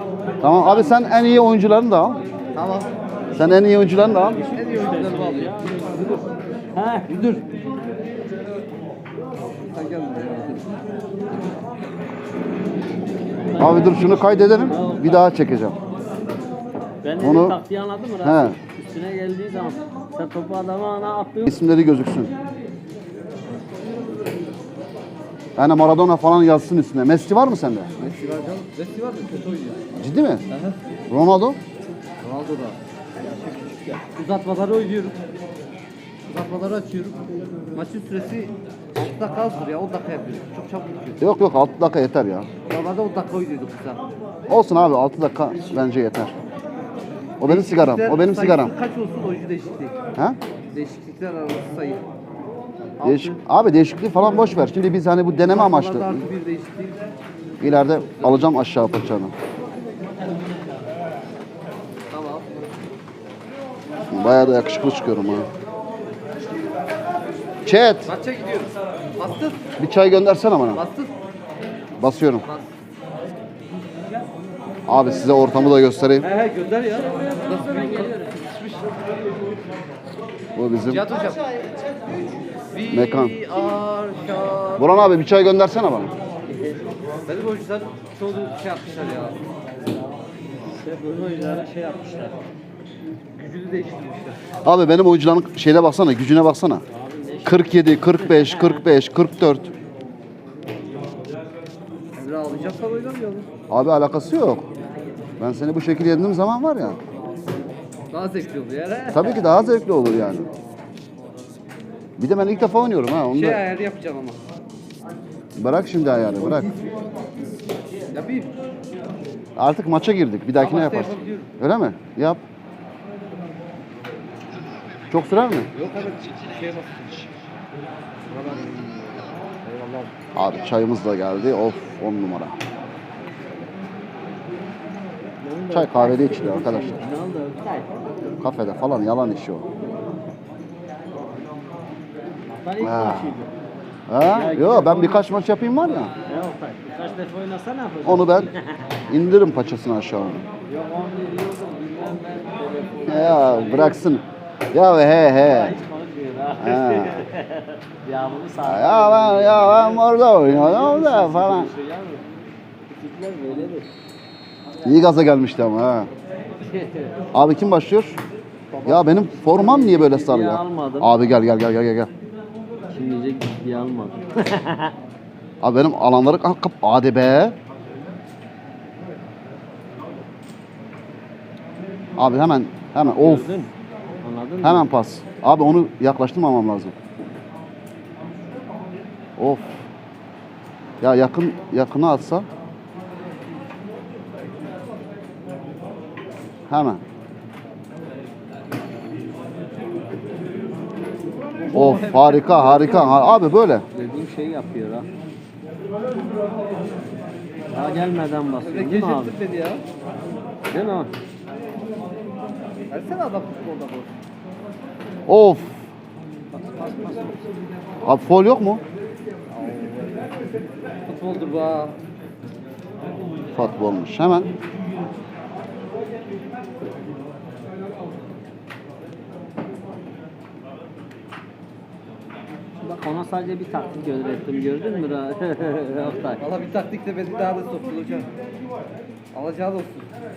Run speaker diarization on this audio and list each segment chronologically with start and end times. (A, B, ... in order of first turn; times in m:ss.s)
0:00.4-0:02.2 A
0:02.5-0:02.9 B
0:03.3-0:04.4 A
0:04.0-0:07.1 C
0:04.5-0:05.6 B
0:07.1-0:07.5 B
0:09.7-0:10.6 B
0:13.5-0:15.2 C
0:13.6-0:15.8 A
0:17.0-0:21.5 C
0:17.2-0:17.6 A
0:18.2-0:18.6 A
0:21.4-0:22.3 A
0:25.6-0:27.9 A
0:28.0-0:29.8 B
0:30.0-0:30.4 A
0:30.5-0:30.8 B
0:31.1-0:31.6 A
0:32.2-0:32.8 B
0:33.3-0:34.0 C
0:34.1-0:35.2 B
0:36.3-0:37.2 B
0:37.7-0:41.2 B
0:41.2-0:42.5 A
0:42.6-0:44.0 B
0:44.5-0:46.3 A
0:47.4-0:48.7 A
0:47.4-0:49.9 B
0:50.7-0:52.0 B
0:53.0-0:53.4 B
0:53.0-0:56.2 A
0:55.5-0:57.0 B
0:57.6-0:59.3 A
1:02.1-1:02.5 B
1:04.1-1:05.5 A
1:07.6-1:08.1 A
1:08.0-1:09.6 B
1:09.8-1:10.8 A
1:10.7-1:11.1 B
1:12.0-1:12.4 A
1:12.4-1:12.7 B
1:14.9-1:16.2 A
1:16.2-1:18.9 B
1:17.1-1:18.2 C
1:20.6-1:21.0 A
1:20.8-1:21.5 B
1:22.7-1:25.0 B
1:22.9-1:23.3 A
1:24.8-1:26.1 A
1:26.5-1:26.8 C
1:27.2-1:29.4 B
1:30.6-1:32.4 C
1:33.4-1:34.4 B
1:34.6-1:36.8 A
1:36.9-1:38.8 C
1:37.4-1:39.7 A
1:42.2-1:43.5 B
1:43.7-1:44.6 A
1:45.4-1:47.0 A
1:48.1-1:49.4 B
1:49.1-1:50.4 A
1:52.2-1:53.6 A
1:53.3-1:54.4 B
1:55.6-1:56.7 A
1:58.1-1:58.5 B
1:59.6-2:02.4 A
2:00.6-2:01.5 B
2:05.1-2:05.7 A
2:05.7-2:07.3 B
2:08.3-2:10.1 B
2:10.3-2:12.6 A
2:15.4-2:18.1 C
2:15.7-2:17.0 A
2:18.4-2:19.6 A
2:22.5-2:23.5 C
2:22.8-2:23.3 A
2:24.1-2:26.1 A
2:24.2-2:25.3 C
2:26.2-2:29.1 C
2:28.0-2:28.5 A
2:29.1-2:30.4 A
2:30.7-2:34.0 C
2:33.1-2:35.8 A
2:35.4-2:42.2 C
2:36.6-2:37.2 A
2:38.6-2:41.7 A
2:42.9-2:43.9 C
2:44.8-2:46.1 A
2:46.7-2:47.1 C
2:47.3-2:48.2 A
2:48.7-2:49.8 B
2:48.8-2:52.1 A
2:49.5-2:51.1 C
2:52.9-2:54.9 C
2:55.6-2:57.6 A
3:02.2-3:03.5 A
3:03.2-3:03.7 C
3:04.2-3:04.9 C
3:04.6-3:06.9 A
3:09.4-3:09.8 A
3:11.0-3:12.4 A
3:16.7-3:17.0 A
3:21.7-3:23.2 B
3:21.7-3:23.8 A
3:23.9-3:25.1 C
3:27.7-3:29.4 C
3:28.6-3:29.8 B
3:30.7-3:31.1 C
3:32.9-3:34.1 B
3:35.3-3:35.8 A
3:36.5-3:37.5 C
3:38.0-3:38.8 A
3:39.5-3:40.3 B
3:41.0-3:41.9 B
3:43.5-3:44.5 A
3:52.8-3:56.4 C
3:56.4-3:58.3 B
3:59.3-4:00.1 B